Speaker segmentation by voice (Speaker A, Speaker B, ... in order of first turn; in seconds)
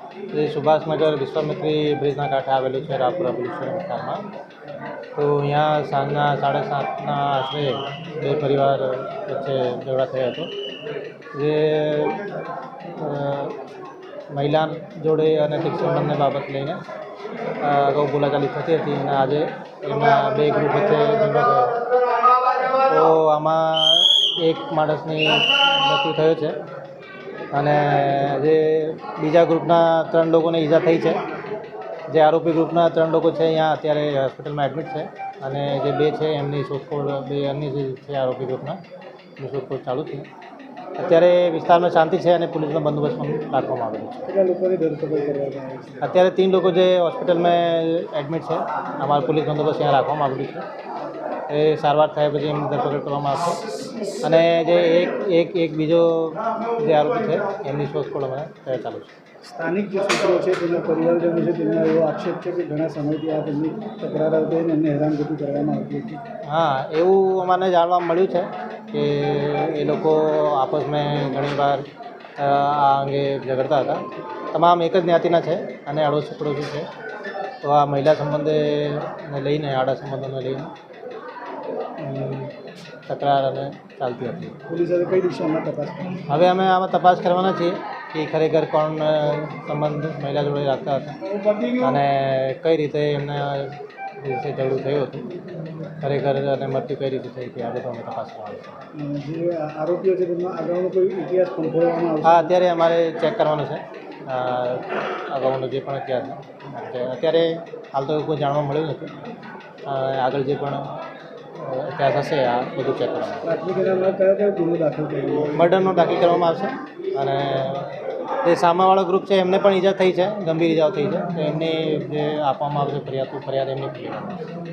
Speaker A: 0.3-4.3, 5.2-10.5, 11.3-12.2, 13.0-13.6, 14.3-16.8, 17.6-21.8, 22.7-26.6, 27.5-31.2, 32.1-38.8, 39.4-40.3, 41.0-44.3, 46.0-50.6, 51.5-59.1, 66.5-71.8, 72.4-76.9, 77.6-80.7, 82.0-82.5, 83.1-84.5, 86.3-91.2, 91.8-95.3, 96.0-98.8, 102.2-109.2, 109.9-110.9, 111.6-113.4, 115.5-124.4
Speaker B: 44.3-46.1, 59.5-66.2, 84.7-86.2, 91.3-91.8, 98.9-102.5, 113.4-115.7